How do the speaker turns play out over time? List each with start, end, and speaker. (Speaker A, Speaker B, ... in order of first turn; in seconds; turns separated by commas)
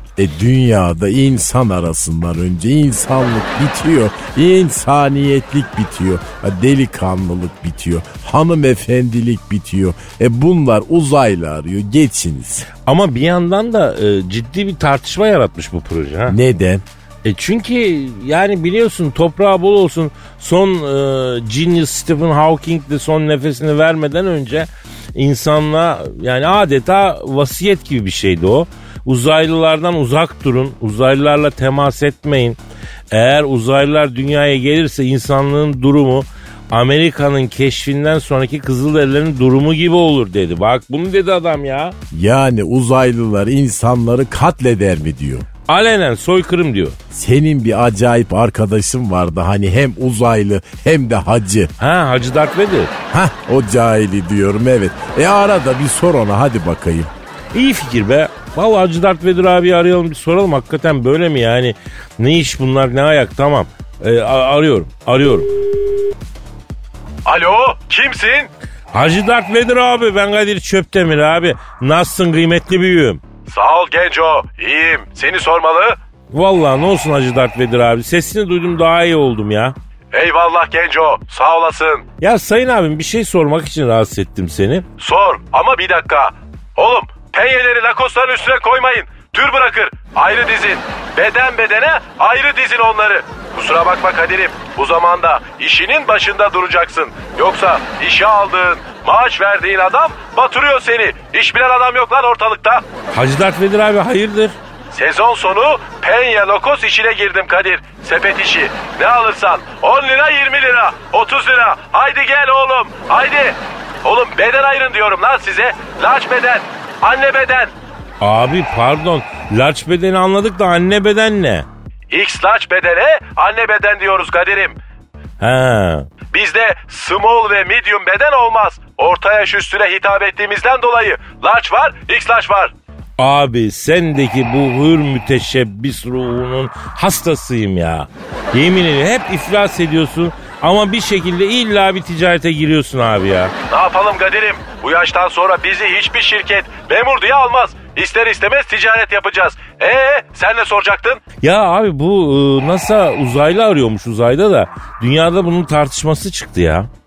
Speaker A: 0.2-12.7, Speaker B: 12.8-16.4, Speaker A: 16.3-16.8, Speaker B: 17.2-32.6, Speaker B: 33.1-42.0, Speaker A: 42.1-45.5, Speaker B: 45.7-47.0, Speaker A: 47.1-51.7, Speaker B: 51.8-52.9, Speaker A: 53.1-57.1, Speaker B: 57.5-65.6, Speaker C: 67.2-68.5, Speaker B: 68.9-73.2, Speaker C: 73.5-76.0, Speaker B: 76.3-79.8, Speaker C: 80.1-82.0, Speaker B: 82.2-84.8, Speaker C: 85.0-102.8, Speaker B: 103.1-104.6, Speaker C: 104.9-117.7, Speaker B: 118.2-121.7, Speaker C: 122.1-124.8, Speaker B: 125.4-126.1, Speaker C: 126.3-132.7, Speaker B: 133.2-143.5, Speaker C: 143.7-151.2, Speaker B: 151.4-156.9